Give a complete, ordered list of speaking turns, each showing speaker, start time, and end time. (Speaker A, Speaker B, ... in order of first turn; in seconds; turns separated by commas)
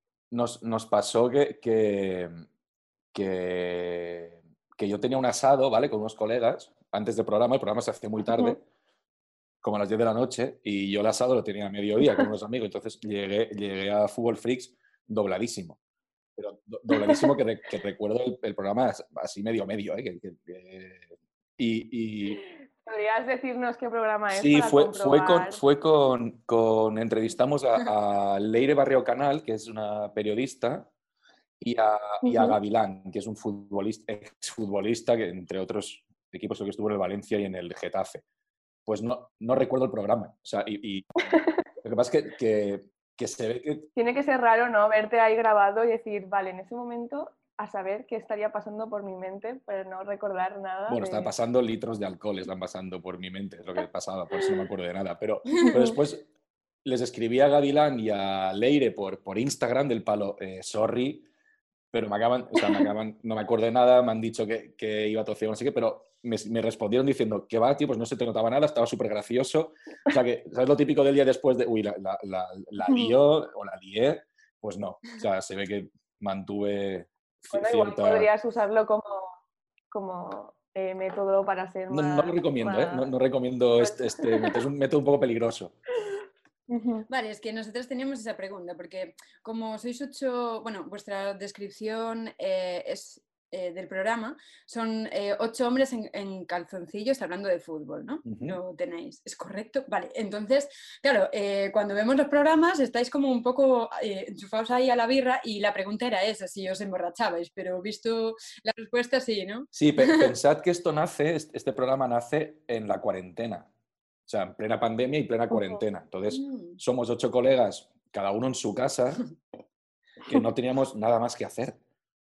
Speaker A: 0.3-2.4, Speaker A: 3.1-8.6, Speaker A: 9.6-15.8, Speaker A: 16.4-22.4, Speaker B: 16.9-17.3, Speaker B: 22.8-25.6, Speaker A: 24.3-30.9, Speaker A: 31.6-38.2, Speaker B: 32.2-32.6, Speaker A: 38.9-43.9, Speaker B: 44.0-51.3, Speaker A: 50.9-56.2, Speaker B: 55.6-56.0, Speaker A: 56.8-61.2, Speaker A: 61.9-78.3, Speaker B: 62.6-62.9, Speaker B: 77.5-79.3, Speaker B: 79.9-83.1, Speaker A: 81.9-85.7, Speaker B: 83.8-84.6, Speaker B: 86.7-87.1, Speaker C: 87.1-110.3, Speaker A: 98.2-98.6, Speaker A: 109.7-113.7, Speaker A: 114.3-119.2, Speaker B: 115.5-115.8, Speaker C: 116.3-116.8, Speaker A: 120.2-121.8